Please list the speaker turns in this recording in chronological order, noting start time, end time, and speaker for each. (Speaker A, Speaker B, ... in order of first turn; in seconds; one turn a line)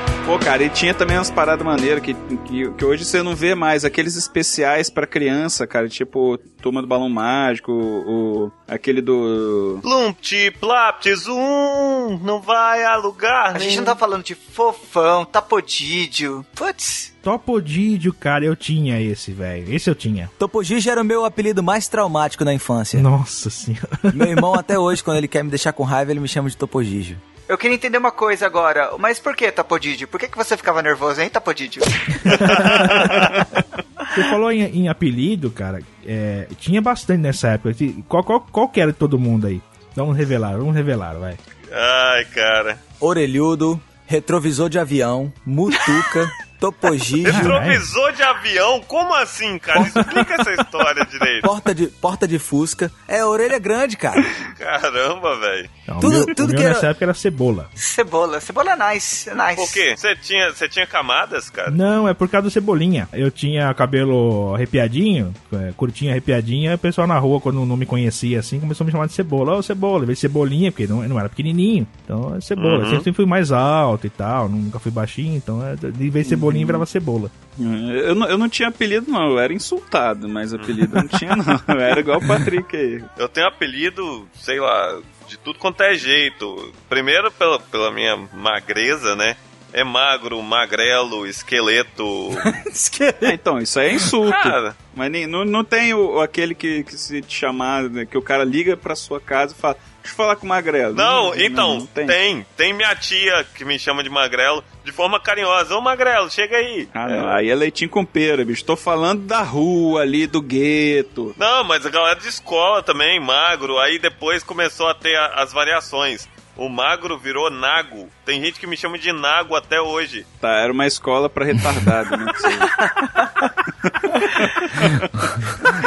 Speaker A: 0.2-9.8
Speaker B: 9.8-14.0
Speaker C: 13.5-17.1
Speaker D: 17.2-20.3
Speaker E: 20.4-23.1
Speaker D: 22.9-24.5
Speaker E: 24.1-27.2
Speaker C: 27.5-32.3
Speaker D: 32.2-33.5
Speaker B: 32.5-33.3
Speaker D: 34.1-41.4
Speaker B: 41.7-42.8
Speaker E: 43.0-47.6
Speaker B: 47.2-51.5
Speaker D: 47.3-47.9
Speaker E: 51.4-54.3
Speaker B: 54.6-55.7
Speaker D: 55.9-57.7
Speaker E: 56.0-56.9
Speaker C: 57.8-59.8
Speaker B: 59.6-61.8
Speaker D: 61.7-77.3
Speaker B: 72.6-73.1
Speaker A: 76.3-76.8
Speaker A: 77.6-83.1
Speaker B: 80.6-81.0
Speaker B: 83.2-92.5
Speaker E: 92.4-93.4
Speaker A: 93.2-102.2
Speaker B: 94.2-94.8
Speaker B: 100.9-107.4
Speaker A: 106.9-111.4
Speaker B: 111.4-120.3
Speaker A: 120.4-122.8
Speaker A: 124.0-125.4